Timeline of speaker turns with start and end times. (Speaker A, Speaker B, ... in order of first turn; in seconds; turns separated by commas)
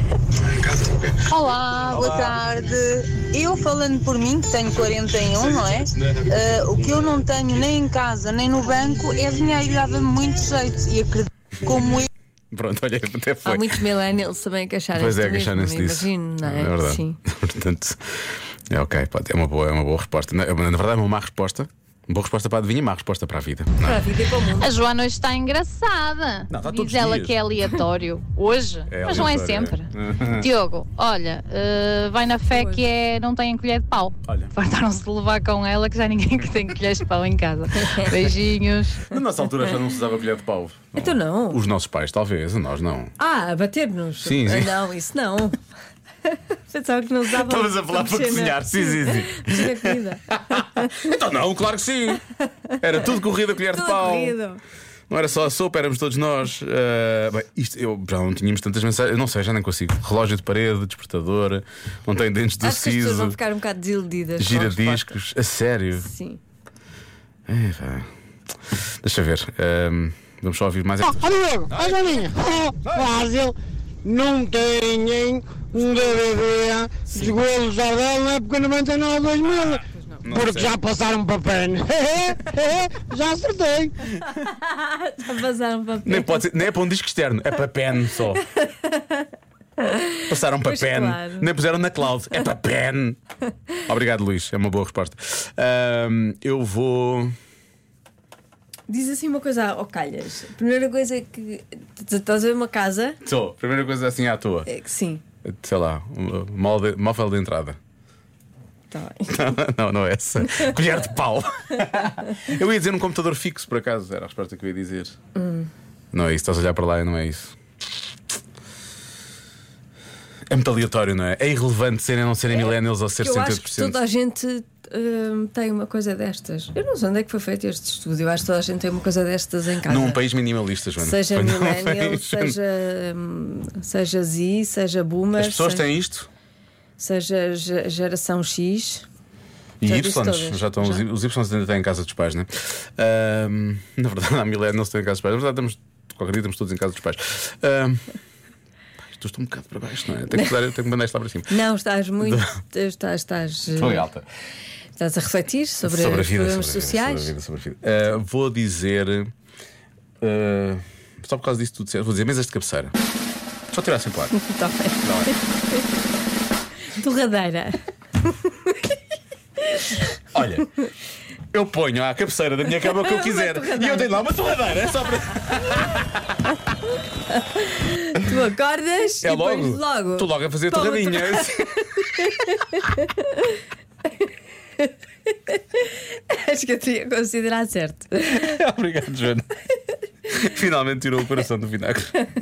Speaker A: 1.2-12.1, Speaker B: 12.5-13.8, Speaker C: 13.4-17.2, Speaker B: 14.9-18.0, Speaker B: 18.7-24.0, Speaker C: 23.8-24.7, Speaker D: 24.6-39.1, Speaker B: 26.5-27.4, Speaker B: 28.9-30.4, Speaker C: 32.5-32.8, Speaker B: 34.3-34.5, Speaker C: 37.8-38.1, Speaker B: 39.1-43.1, Speaker C: 41.0-41.6, Speaker C: 43.2-45.6, Speaker B: 44.2-44.8, Speaker C: 46.3-51.1, Speaker B: 47.3-52.2, Speaker C: 52.7-53.1, Speaker B: 52.8-54.4, Speaker C: 53.7-54.6, Speaker B: 55.1-63.4, Speaker C: 62.6-65.2, Speaker B: 64.4-66.1, Speaker C: 66.0-66.4, Speaker B: 67.5-68.1, Speaker B: 69.0-73.1, Speaker E: 71.2-73.5, Speaker E: 74.0-79.7, Speaker B: 77.1-77.4, Speaker B: 79.4-80.8, Speaker E: 80.4-83.9, Speaker C: 84.4-86.5, Speaker B: 86.0-88.4, Speaker C: 88.5-89.3, Speaker C: 89.8-91.5, Speaker B: 90.3-93.2, Speaker B: 93.8-97.4, Speaker C: 98.9-103.2, Speaker B: 103.2-104.7, Speaker C: 104.7-105.2, Speaker B: 105.4-107.8, Speaker C: 108.9-109.4, Speaker B: 109.3-115.1, Speaker C: 115.3-115.7, Speaker B: 116.1-117.5, Speaker B: 120.5-124.0, Speaker C: 122.5-130.2, Speaker B: 129.9-132.6, Speaker C: 131.0-135.9, Speaker B: 135.3-136.3, Speaker C: 137.0-139.1, Speaker B: 139.8-148.1, Speaker C: 139.8-141.0, Speaker B: 149.1-151.5, Speaker C: 151.5-154.1, Speaker B: 152.2-152.6, Speaker B: 153.7-154.2, Speaker C: 155.0-157.3, Speaker B: 155.8-159.3, Speaker B: 160.2-162.9, Speaker B: 163.7-164.3, Speaker C: 164.3-165.8, Speaker B: 165.0-165.3, Speaker C: 166.9-168.8, Speaker C: 169.6-170.0, Speaker B: 170.3-170.7, Speaker B: 171.5-176.4, Speaker C: 172.8-174.2, Speaker C: 177.3-183.6, Speaker B: 179.2-182.2, Speaker C: 184.8-188.5, Speaker B: 188.3-189.5, Speaker B: 190.3-192.2